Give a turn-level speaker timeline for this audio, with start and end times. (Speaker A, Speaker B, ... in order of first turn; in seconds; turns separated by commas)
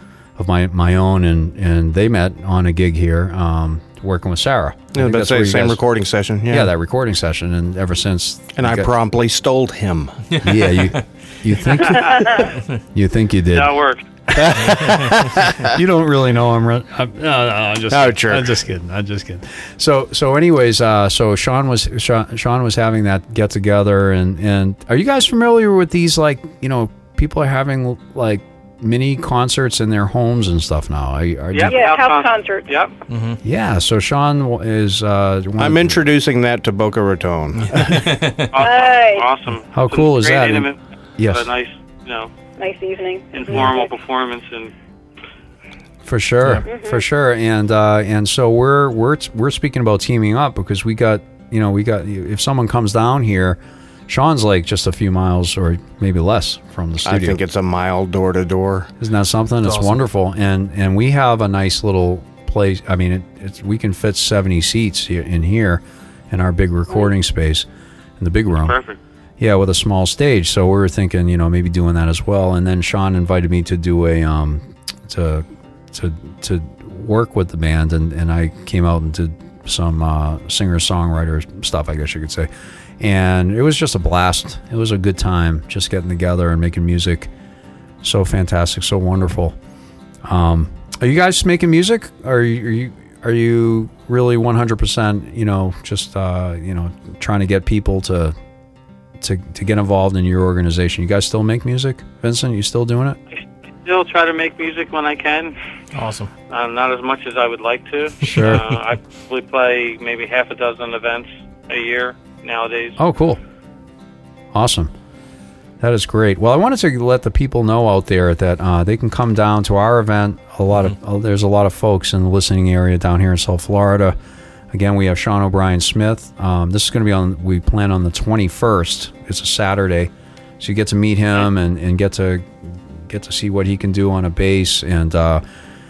Speaker A: 0.4-5.8, Speaker B: 4.9-6.7, Speaker A: 6.5-8.9, Speaker B: 8.6-10.5, Speaker C: 10.3-11.1, Speaker A: 10.4-13.8, Speaker D: 11.8-12.5, Speaker E: 12.1-12.4, Speaker D: 13.5-14.0, Speaker A: 14.3-31.9, Speaker B: 14.4-15.7, Speaker C: 14.6-15.3, Speaker B: 17.9-18.6, Speaker D: 31.5-32.9, Speaker E: 31.7-32.7, Speaker C: 33.1-33.4, Speaker A: 33.4-36.1, Speaker B: 35.6-38.1, Speaker C: 37.8-38.5, Speaker D: 38.5-42.3, Speaker E: 38.6-39.3, Speaker A: 39.7-41.5, Speaker E: 42.6-43.9, Speaker D: 43.3-44.7, Speaker A: 46.0-57.4, Speaker E: 46.7-47.0, Speaker B: 57.1-58.9, Speaker A: 59.0-67.7, Speaker C: 59.6-60.0, Speaker A: 68.2-68.8, Speaker D: 68.6-69.0, Speaker A: 69.4-82.5, Speaker A: 83.0-87.3, Speaker A: 88.0-89.6, Speaker A: 90.2-98.3, Speaker A: 99.2-103.2, Speaker D: 103.3-105.6, Speaker C: 105.9-106.3, Speaker D: 106.5-113.0, Speaker A: 108.2-108.6, Speaker A: 113.0-113.4, Speaker A: 114.5-114.9, Speaker A: 115.8-124.2, Speaker A: 124.7-135.4